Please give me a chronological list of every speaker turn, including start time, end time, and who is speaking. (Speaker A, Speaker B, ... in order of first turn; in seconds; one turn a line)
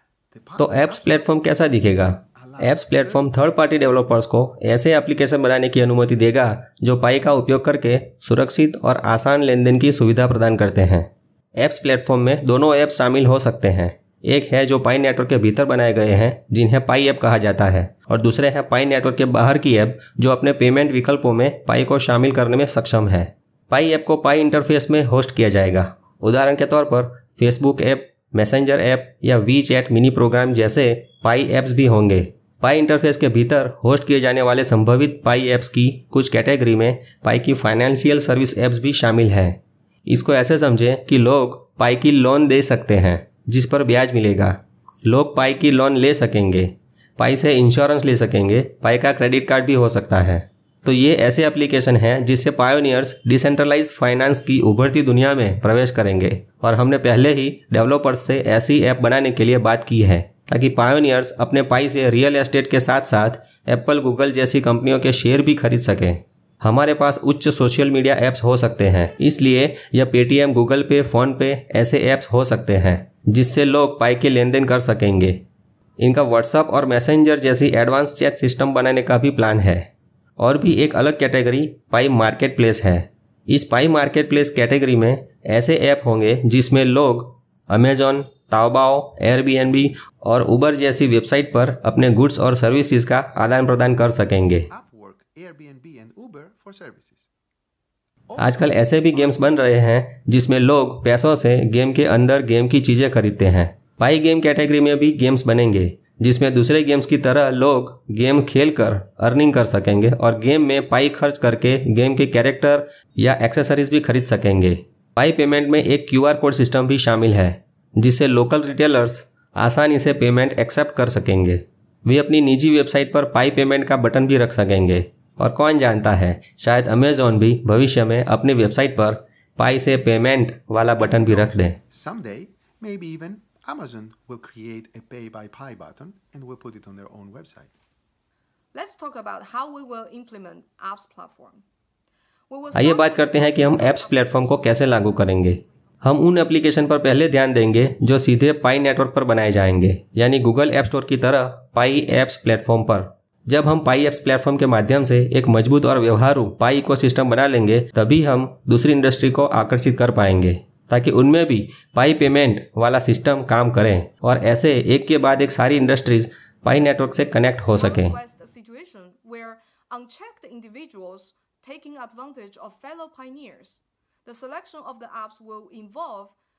Speaker A: 0.3-1.3
Speaker B: 0.6-75.4
Speaker A: 2.3-3.2
Speaker B: 76.0-94.7
Speaker A: 94.7-97.3
Speaker A: 98.3-99.6
Speaker B: 98.4-131.8
Speaker A: 131.0-137.7
Speaker C: 138.7-141.6
Speaker C: 142.5-145.7
Speaker B: 142.7-168.1
Speaker C: 167.7-176.3